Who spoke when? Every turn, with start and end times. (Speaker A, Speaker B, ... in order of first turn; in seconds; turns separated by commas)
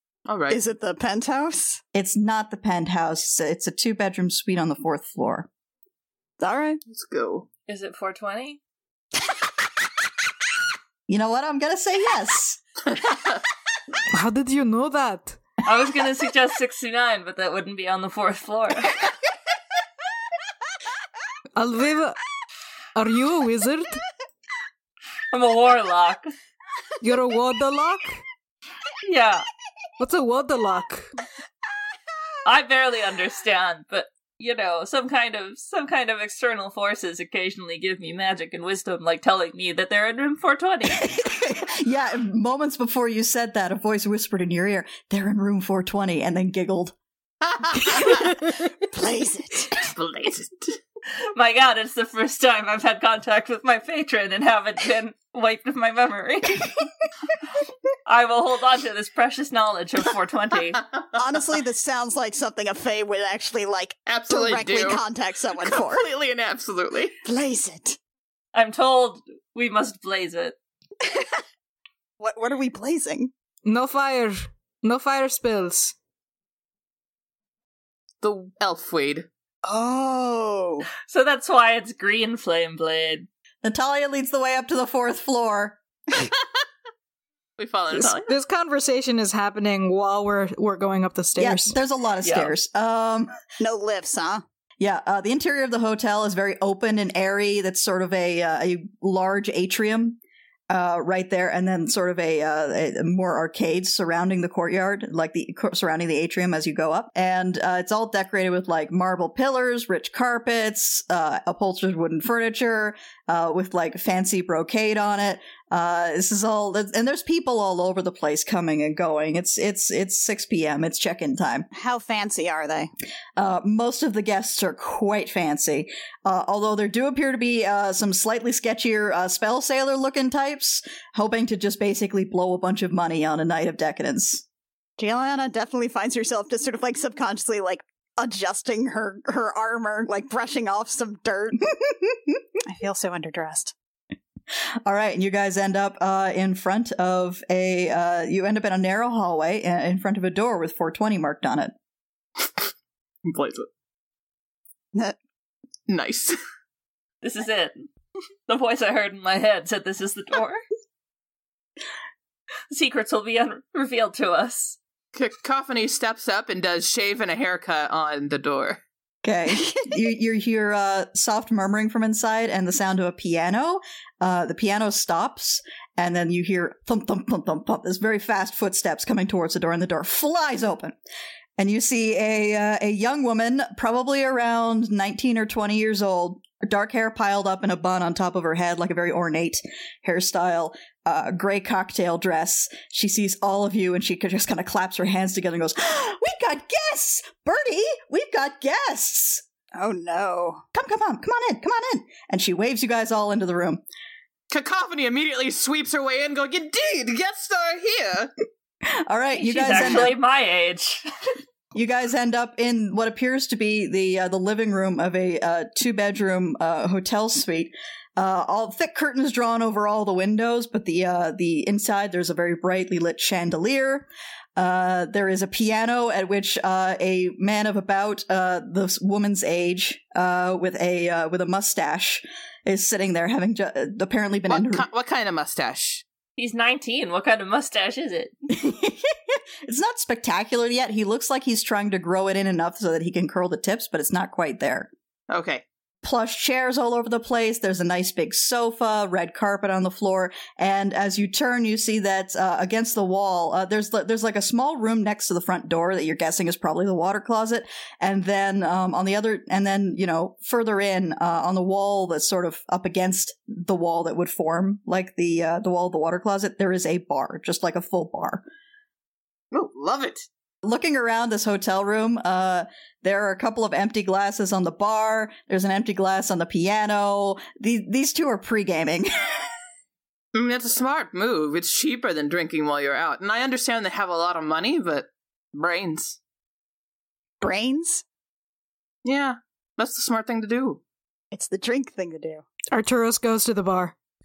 Speaker A: 0.3-0.6, Speaker B: 0.5-1.8, Speaker C: 1.9-5.5, Speaker B: 6.4-6.8, Speaker A: 6.9-7.5, Speaker D: 7.7-8.6, Speaker C: 11.1-12.6, Speaker E: 14.1-15.4, Speaker D: 15.6-18.9, Speaker E: 21.6-22.2, Speaker E: 22.9-24.0, Speaker D: 25.3-26.3, Speaker E: 27.0-28.2, Speaker D: 29.0-29.5, Speaker E: 30.0-31.1, Speaker D: 32.5-41.1, Speaker C: 41.0-47.0, Speaker A: 47.5-48.3, Speaker B: 48.9-49.7, Speaker A: 49.8-50.5, Speaker D: 51.3-56.7, Speaker D: 58.1-60.8, Speaker B: 61.1-66.0, Speaker A: 64.1-65.0, Speaker A: 65.6-67.2, Speaker B: 67.2-68.0, Speaker D: 68.5-70.6, Speaker B: 72.2-73.3, Speaker E: 73.7-76.0, Speaker A: 78.2-79.3, Speaker B: 79.7-80.9, Speaker D: 81.1-83.3, Speaker C: 83.6-85.8, Speaker A: 87.6-88.3, Speaker E: 87.9-91.8, Speaker C: 91.4-93.3, Speaker D: 92.2-92.5, Speaker B: 93.6-94.4, Speaker C: 94.8-100.2, Speaker C: 100.7-121.7, Speaker B: 121.7-122.9, Speaker C: 123.4-134.4, Speaker B: 135.0-141.7, Speaker C: 141.8-142.4, Speaker B: 142.7-143.7, Speaker C: 144.8-151.7, Speaker A: 152.4-152.7, Speaker A: 153.2-153.7, Speaker A: 155.9-156.4, Speaker D: 157.2-157.9, Speaker D: 158.5-160.6, Speaker D: 162.7-164.8, Speaker A: 165.1-168.8, Speaker C: 169.2-181.0, Speaker C: 181.6-199.4, Speaker B: 199.8-200.6, Speaker C: 200.7-203.8, Speaker A: 204.5-208.3, Speaker C: 209.1-210.1, Speaker D: 209.3-211.1, Speaker C: 211.7-234.9, Speaker A: 234.5-236.0, Speaker D: 236.4-238.3, Speaker C: 238.5-244.9, Speaker A: 245.3-245.6, Speaker C: 246.0-268.4, Speaker A: 269.5-270.3, Speaker C: 270.6-279.5, Speaker A: 280.3-286.2, Speaker B: 287.4-288.0, Speaker A: 289.0-290.8, Speaker B: 291.3-292.5, Speaker E: 292.7-293.9